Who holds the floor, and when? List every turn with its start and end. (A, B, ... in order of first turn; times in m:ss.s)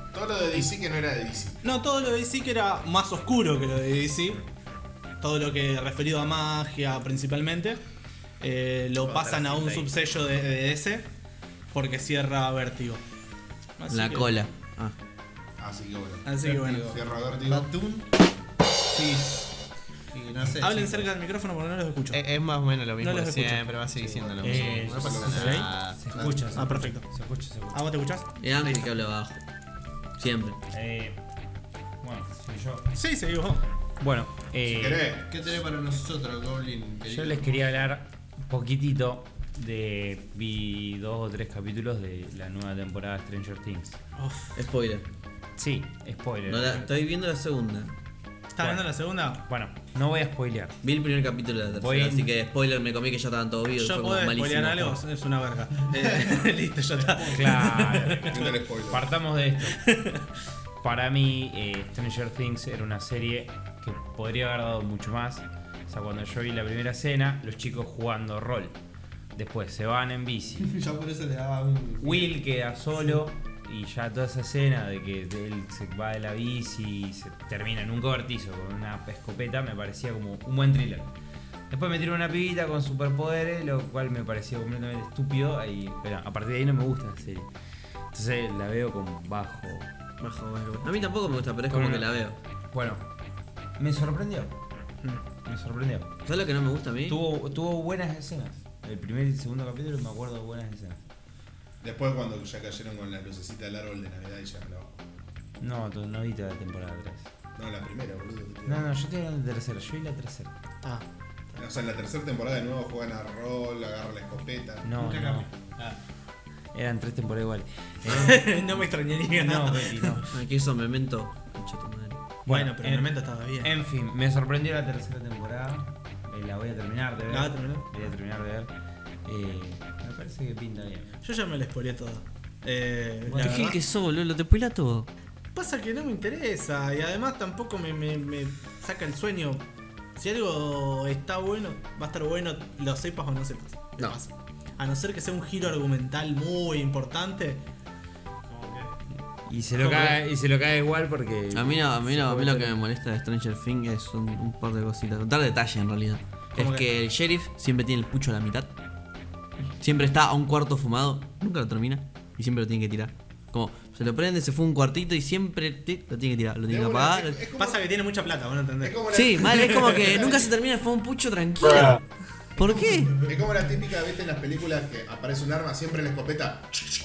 0:00.1-0:01.6 A
0:01.6-0:04.4 B
0:05.2-0:07.8 B
0:08.4-0:11.1 B
0:09.0-0:09.9 C
0:11.7-0:13.0 B
0:13.8-0:14.3 B
0:13.9-0:15.0 D
0:15.6-0:17.8 A
0:16.2-0:17.0 B
0:16.4-0:18.2 C
0:18.9-0:19.5 C
0:20.1-0:21.1 C
0:20.6-0:22.2 B
0:22.1-0:26.6 C
0:23.0-0:24.2 B
0:24.4-0:25.7 A
0:24.4-0:27.8 E
0:25.3-0:25.7 B
0:26.5-0:27.1 B
0:27.7-0:28.4 B
0:28.4-0:29.4 D
0:30.2-0:30.6 D
0:30.7-0:31.2 E
0:32.0-0:32.9 E
0:32.9-0:33.6 B
0:34.0-0:35.1 E
0:34.6-0:35.3 A
0:35.3-0:37.9 C
0:37.0-0:44.0 E
0:44.2-0:44.6 B
0:44.6-0:45.1 D
0:45.6-0:46.9 E
0:46.5-0:47.9 D
0:48.5-0:49.4 B
0:48.6-0:48.9 E
0:49.4-0:50.8 E
0:50.8-0:55.0 D
0:51.7-0:52.3 E
0:53.8-0:58.5 B
0:57.0-0:57.9 C
0:57.3-0:59.8 E
0:58.2-0:59.1 A
0:59.8-1:00.2 B
1:00.8-1:08.8 E
1:09.3-1:10.8 E
1:10.6-1:12.3 C
1:12.0-1:21.1 E
1:21.7-1:27.5 E
1:28.1-1:29.9 E
1:30.2-1:32.4 D
1:31.7-1:32.1 E
1:32.7-1:33.1 E
1:33.8-1:34.6 E
1:35.4-1:36.1 E
1:36.3-1:37.2 D
1:37.1-1:41.0 E
1:41.8-1:45.0 A
1:45.6-1:47.3 E
1:47.6-1:48.9 A
1:48.6-1:50.5 E
1:50.8-1:51.6 B
1:51.6-1:54.9 A
1:54.8-1:55.5 E
1:55.0-1:56.0 C
1:56.7-2:00.3 E
1:58.1-2:00.3 B
2:00.3-2:02.2 D
2:02.5-2:08.7 E
2:02.5-2:03.7 B
2:07.3-2:08.1 B
2:09.2-2:11.1 E
2:11.2-2:13.8 B
2:13.3-2:15.1 D
2:15.6-2:27.6 B
2:28.5-2:28.9 C
2:29.5-2:32.8 E
2:29.8-2:30.2 B
2:31.5-2:38.7 D
2:36.6-2:36.9 B
2:39.8-2:47.4 D
2:46.7-2:47.8 A
2:47.6-2:49.0 B
2:48.8-2:50.5 A
2:49.1-2:52.0 D
2:52.6-2:53.2 D
2:52.6-2:56.8 A